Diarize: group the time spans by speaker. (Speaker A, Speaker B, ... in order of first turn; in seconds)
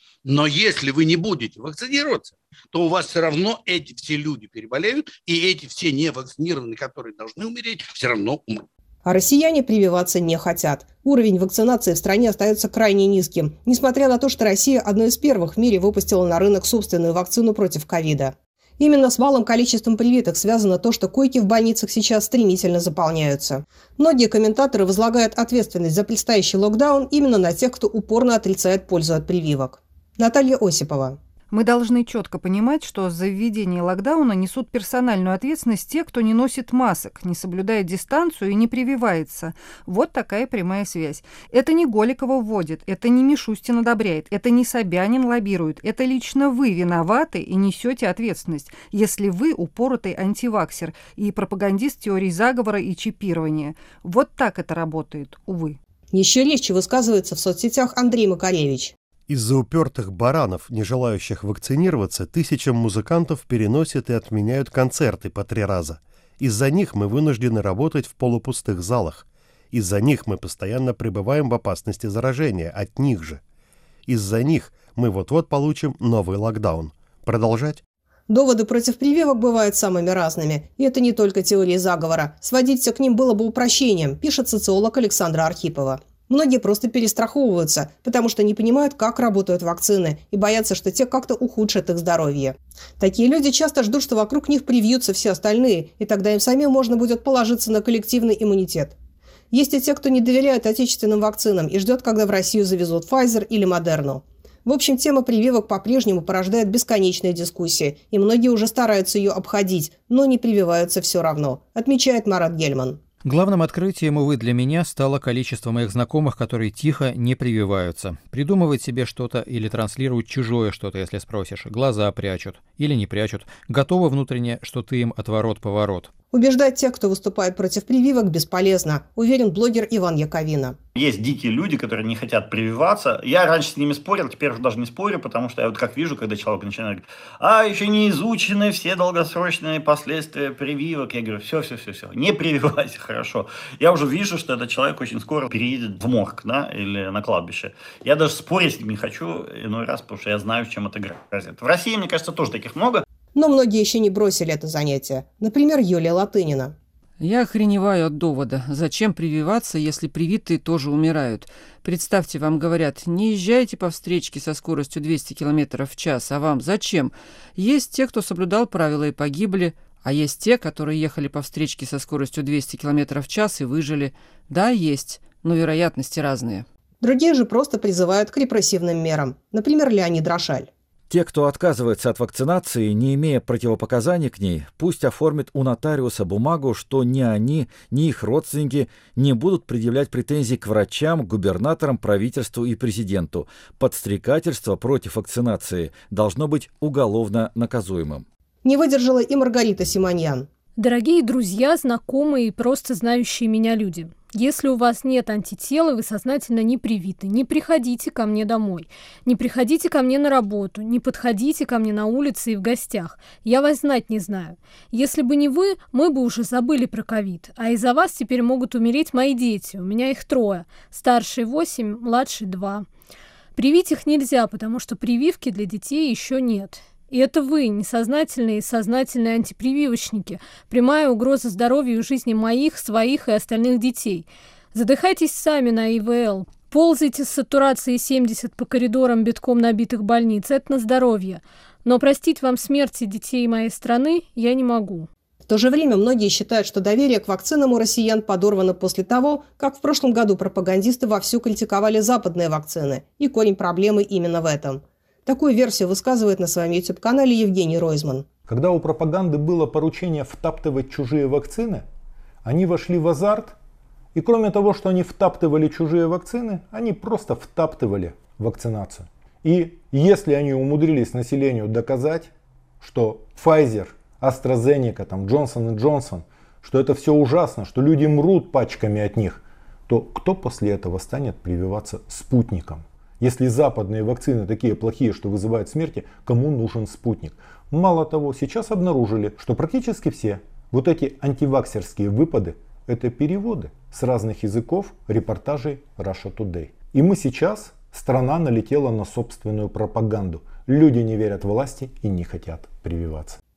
Speaker A: 0.2-8.7
Speaker B: 9.1-31.2, 56.1-58.9, 78.3-99.0, 99.5-113.0, 126.3-130.8, 153.3-156.8, 177.0-180.7, 198.6-200.5, 245.5-258.3
Speaker C: 31.5-55.8
Speaker D: 59.3-73.4, 74.1-77.8
Speaker E: 113.2-126.1
Speaker F: 131.0-153.1
Speaker G: 157.2-176.7
Speaker H: 181.1-198.2
Speaker I: 200.8-222.9, 223.6-245.1
Speaker J: 258.5-261.9, 262.4-263.6, 264.1-303.4